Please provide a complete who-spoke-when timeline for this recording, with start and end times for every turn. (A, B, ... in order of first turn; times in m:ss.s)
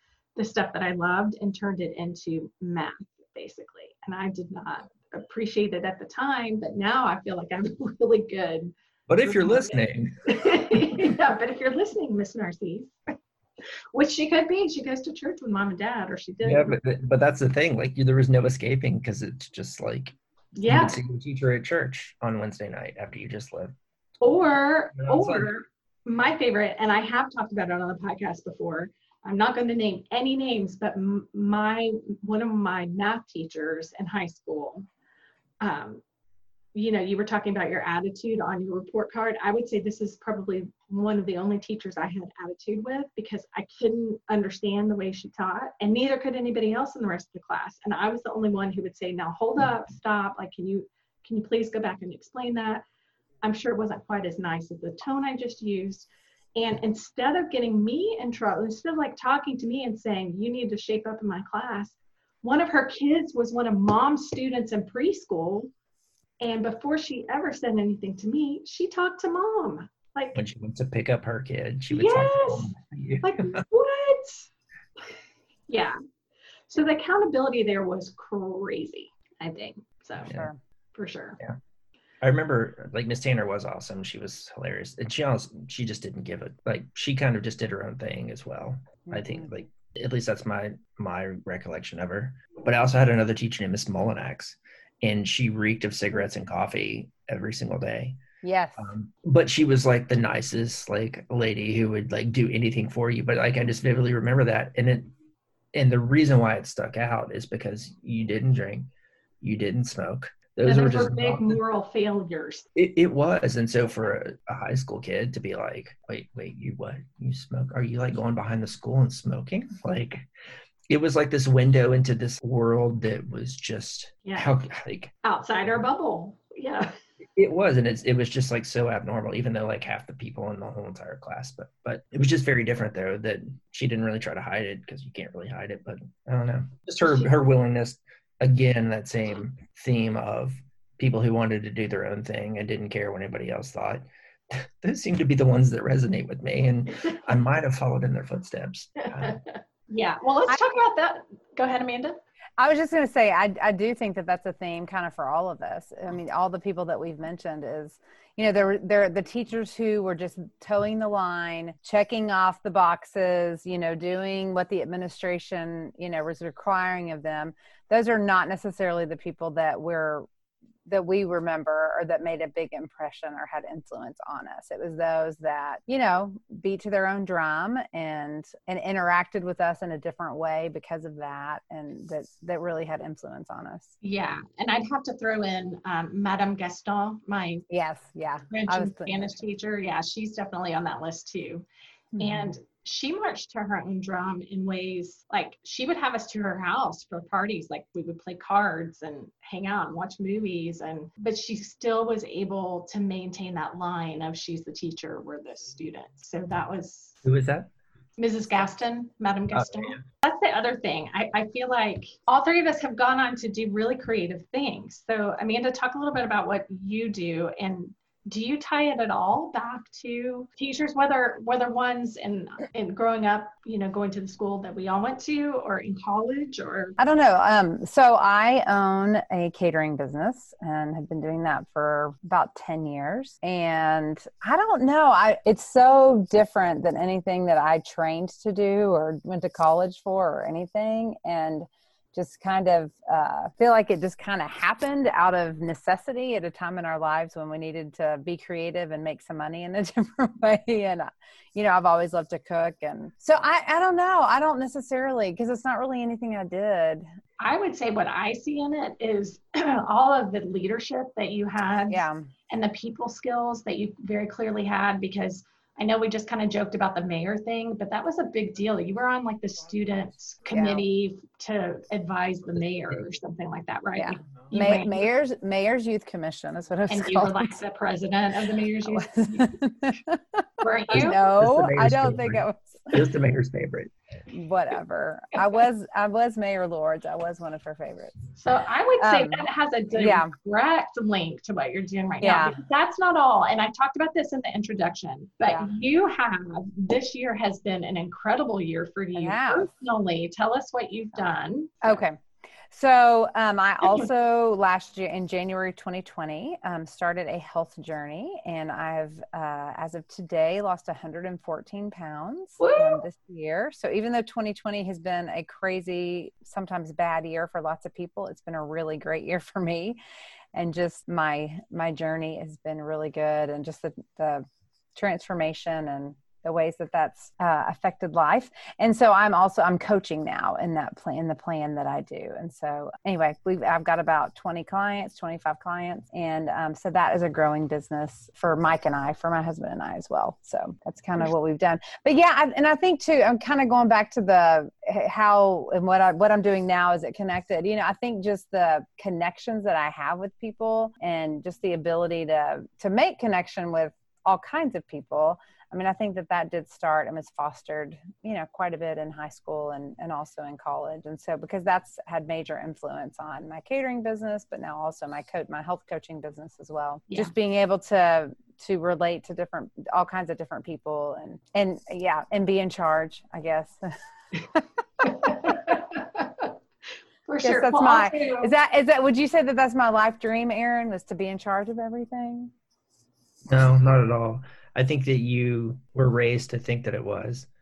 0:00.4-0:13.0 A
0:09.1-0:11.1 B
0:13.9-0:16.8 A
0:16.4-0:23.7 B
0:20.6-0:21.0 A
0:24.2-0:34.9 A
0:25.0-0:25.5 B
0:35.6-0:36.0 A
0:36.7-0:52.8 A
0:53.4-1:05.7 A
1:06.4-1:10.4 A
1:10.4-1:13.6 B
1:11.9-1:12.7 A
1:13.2-1:14.5 A
1:15.7-1:16.0 A
1:16.7-1:20.3 A
1:20.3-1:20.6 C
1:21.0-1:21.4 A
1:22.2-1:38.2 B
1:29.1-1:29.5 C
1:38.4-1:38.9 C
1:38.8-1:45.1 B
1:45.7-1:48.9 B
1:49.4-1:51.6 B
1:50.6-1:52.6 A
1:52.8-2:00.3 B
2:00.9-2:05.1 B
2:04.2-2:04.6 A
2:05.2-2:07.0 A
2:07.4-2:29.4 B
2:29.1-2:32.2 A
2:32.6-2:50.3 C
2:50.9-3:03.9 C
3:04.0-3:07.7 A
3:07.7-3:09.3 C
3:08.5-3:11.7 A
3:12.2-3:12.5 C
3:12.2-3:27.2 A
3:27.2-3:27.7 B
3:28.2-3:47.0 A
3:29.5-3:30.0 B
3:47.0-4:17.1 C
4:17.4-4:35.1 A
4:21.9-4:22.3 C
4:30.5-4:30.8 C
4:34.0-4:37.5 C
4:36.9-4:39.6 A
4:38.9-4:43.1 C
4:40.6-4:41.2 A
4:40.9-4:43.9 B
4:44.3-4:48.2 C
4:48.4-5:01.8 A
4:49.0-4:50.3 C
4:52.2-4:52.6 C
4:59.2-4:59.7 C
5:01.8-5:02.2 C
5:02.7-5:20.0 C
5:12.6-5:13.0 A
5:20.5-5:24.4 C
5:25.0-6:13.9 C
6:15.0-6:16.5 A
6:15.2-6:15.7 C
6:17.3-6:18.5 A
6:17.4-6:22.5 C
6:23.5-6:27.5 B